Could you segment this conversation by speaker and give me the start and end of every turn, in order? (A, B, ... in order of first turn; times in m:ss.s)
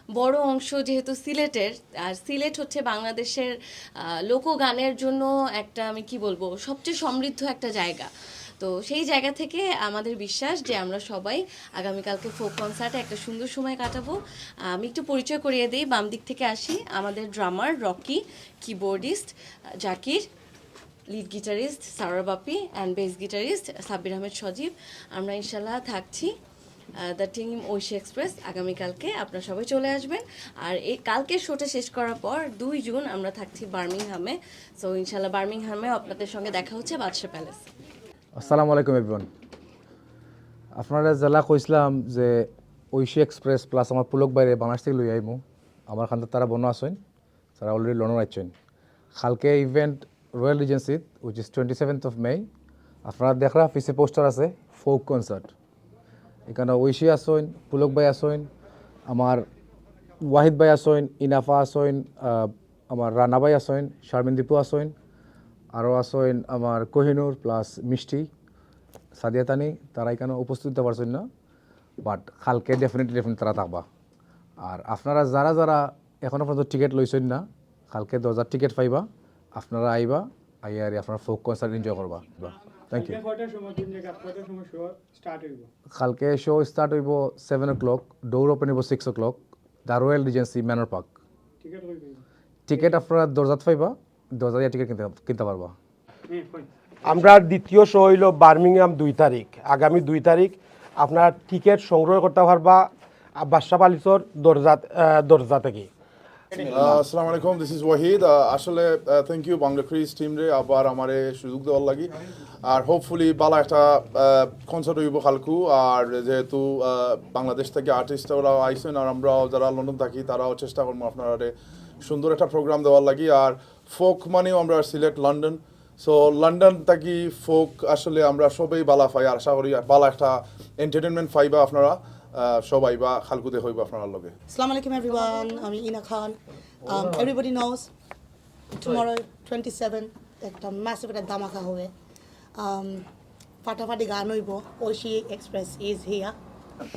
0:00.2-0:03.5 A
0:04.3-0:08.1 A
0:08.6-0:14.2 A
0:14.7-0:19.3 A
0:19.8-0:20.2 A
0:21.1-0:26.3 A
0:27.0-0:37.6 A
0:38.4-0:39.3 B
0:40.8-0:47.0 B
0:47.6-0:48.5 B
0:49.2-0:52.5 B
0:53.0-0:55.5 B
0:56.5-0:58.5 B
0:59.1-0:59.4 B
1:00.2-1:04.9 B
1:05.7-1:08.3 B
1:09.2-1:11.3 B
1:12.0-1:13.8 B
1:14.6-1:23.2 B
1:22.9-1:25.7 C
1:26.0-1:31.1 B
1:31.6-1:32.2 C
1:32.7-1:35.7 B
1:36.3-1:36.7 C
1:37.0-1:45.9 D
1:46.6-1:52.1 E
1:52.6-2:14.3 E
2:14.6-2:16.4 F
2:16.9-2:17.9 F
2:19.0-2:21.9 F
2:22.6-2:23.0 F
2:23.6-2:26.4 F